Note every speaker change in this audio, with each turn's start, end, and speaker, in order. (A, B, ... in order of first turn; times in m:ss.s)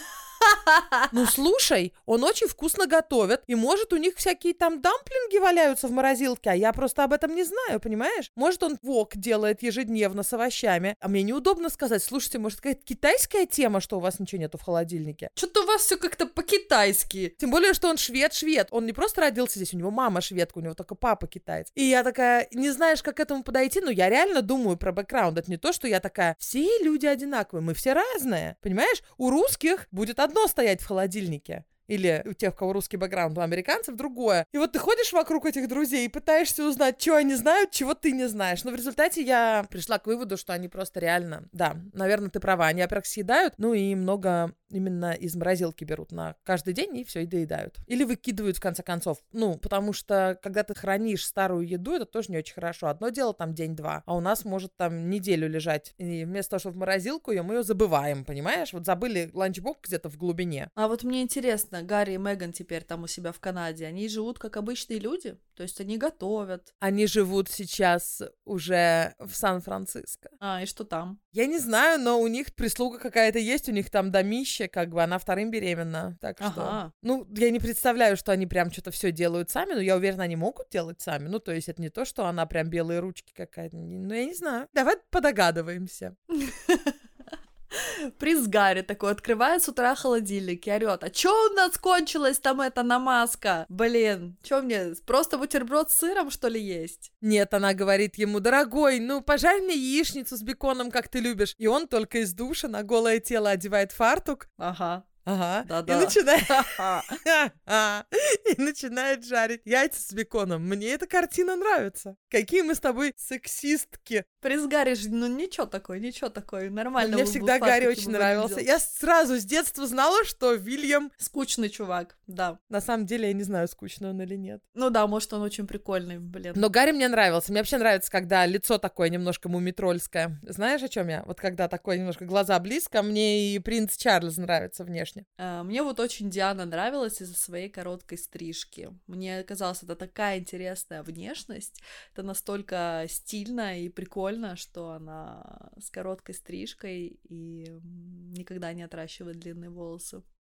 0:00.4-0:01.1 A
0:01.1-0:15.3 B
0:15.4-0:17.3 A
0:17.4-1:00.7 B
1:00.8-1:06.7 A
1:06.8-1:10.3 B
1:10.4-1:11.2 A
1:11.3-1:26.2 B
1:16.4-1:16.9 A
1:26.3-1:27.0 A
1:27.7-1:37.1 A
1:37.2-1:44.5 B
1:44.6-1:45.1 A
1:45.2-1:54.3 B
1:45.6-1:47.2 A
1:54.4-1:58.6 A
1:57.0-2:01.1 B
2:01.2-2:02.6 A
2:02.7-2:04.6 B
2:04.8-2:06.7 A
2:06.6-2:15.2 B
2:15.4-2:30.2 A